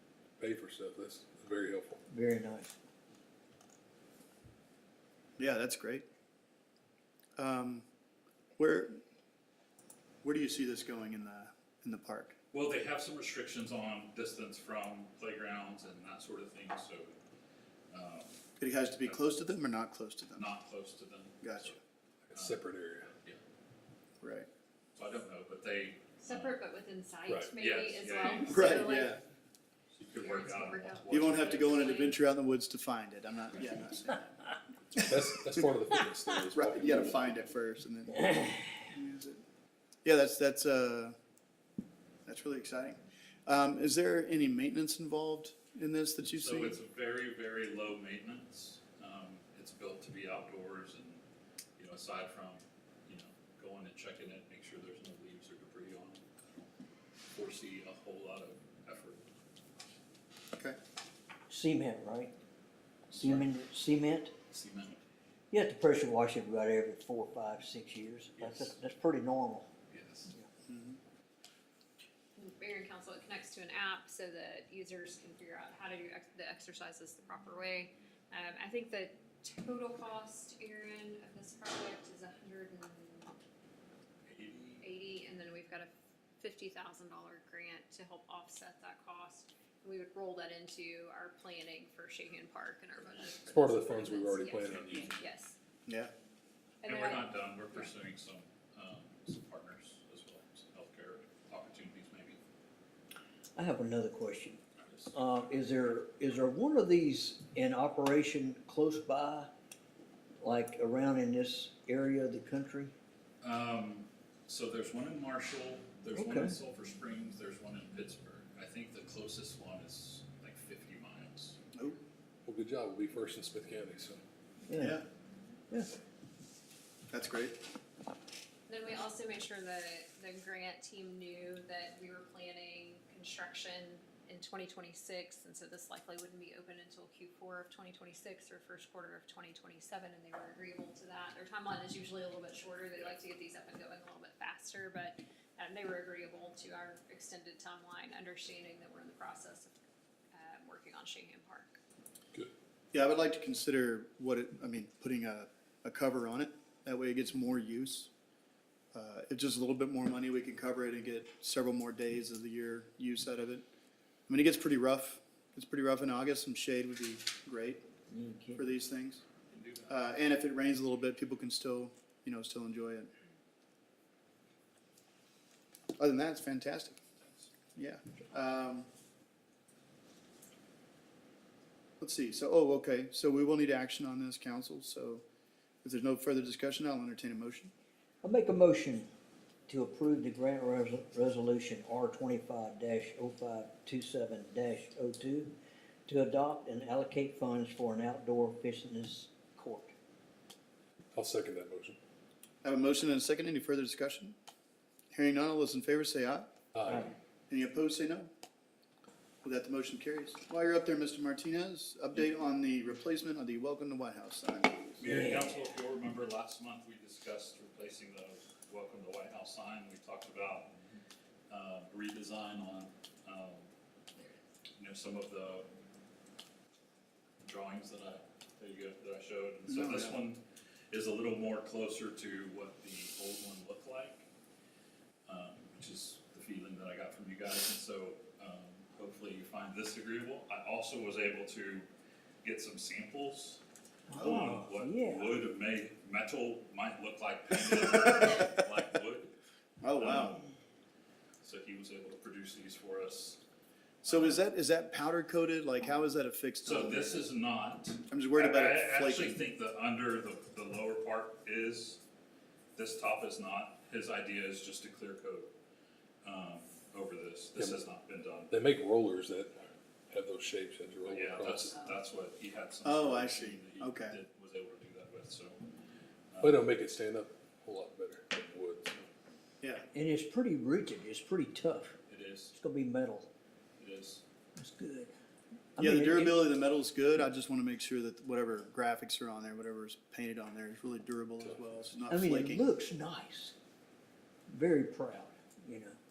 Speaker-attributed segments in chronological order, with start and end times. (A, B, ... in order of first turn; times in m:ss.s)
0:00.4-0:02.0 A
0:02.1-0:02.8 B
0:05.4-0:06.0 C
0:07.4-0:07.8 C
0:08.6-0:09.0 C
0:10.2-0:12.4 C
0:12.5-0:17.2 D
0:17.9-0:18.4 D
0:18.6-0:20.5 C
0:20.4-0:21.8 D
0:21.4-0:21.8 C
0:22.3-0:22.6 D
0:22.3-0:23.1 A
0:24.2-0:24.5 C
0:25.0-0:26.6 D
0:26.2-0:29.2 E
0:27.6-0:28.8 D
0:28.5-0:29.2 C
0:29.9-0:32.1 D
0:30.1-0:32.2 E
0:31.1-0:34.4 C
0:34.9-0:37.2 A
0:35.0-0:35.6 C
0:36.5-0:39.4 C
0:40.0-0:41.2 C
0:42.3-0:46.8 C
0:46.3-0:51.2 D
0:51.8-0:56.7 D
0:57.3-0:59.3 D
1:01.5-1:02.3 B
1:03.1-1:04.4 B
1:03.1-1:03.5 D
1:04.5-1:05.0 D
1:05.5-1:09.7 B
1:08.4-1:08.8 D
1:09.9-1:10.3 D
1:10.7-1:11.0 C
1:12.4-1:23.4 E
1:24.2-1:24.8 D
1:24.8-1:35.6 E
1:33.4-1:35.2 A
1:36.8-1:37.9 E
1:36.8-1:42.4 D
1:43.6-1:44.6 B
1:44.8-1:45.2 D
1:45.1-1:49.5 B
1:50.4-1:52.9 B
1:53.4-2:01.6 D
1:56.2-1:56.5 B
2:01.7-2:02.0 C
2:02.5-2:04.2 A
2:04.7-2:05.0 B
2:04.8-2:05.0 C
2:07.1-2:07.6 C
2:08.7-2:29.8 E
2:22.9-2:23.2 D
2:30.3-2:31.8 E
2:32.9-2:38.1 C
2:38.9-2:43.7 C
2:44.3-2:47.8 C
2:48.1-2:48.6 B
2:48.6-2:49.2 C
2:49.5-2:50.0 D
2:49.9-2:53.1 C
2:56.0-2:57.0 C
2:57.2-2:57.5 D
2:57.8-2:58.9 C
3:02.0-3:05.2 C
3:05.8-3:07.7 C
3:08.2-3:09.1 B
3:09.7-3:15.5 B
3:16.1-3:19.9 B
3:21.1-3:22.0 A
3:22.6-3:24.4 C
3:25.1-3:26.5 C
3:26.8-3:27.1 A
3:27.5-3:28.3 C
3:29.4-3:35.3 C
3:35.0-3:40.7 D
3:41.5-3:43.7 D
3:44.8-3:45.7 D
3:47.4-3:54.3 D
3:49.7-3:50.2 C
3:55.3-4:01.9 D
4:02.4-4:03.6 D
4:04.1-4:05.4 B
4:04.1-4:09.4 D
4:09.8-4:10.4 C
4:10.0-4:10.4 D
4:11.4-4:13.4 D
4:14.0-4:14.4 D
4:14.1-4:17.3 C
4:16.6-4:22.0 D
4:18.1-4:19.4 C
4:22.8-4:25.5 D
4:26.2-4:28.5 D
4:28.5-4:31.8 A
4:31.1-4:35.6 D
4:32.8-4:34.2 C
4:36.3-4:36.7 D
4:36.4-4:39.0 A
4:39.6-4:39.9 C
4:39.9-4:42.0 B
4:42.1-4:42.6 D
4:42.6-4:43.3 B
4:43.8-4:44.2 D
4:44.6-4:45.1 B
4:45.8-4:46.5 B
4:45.8-4:52.6 C
4:51.4-4:51.8 A
4:52.1-4:53.6 B
4:54.5-4:56.0 B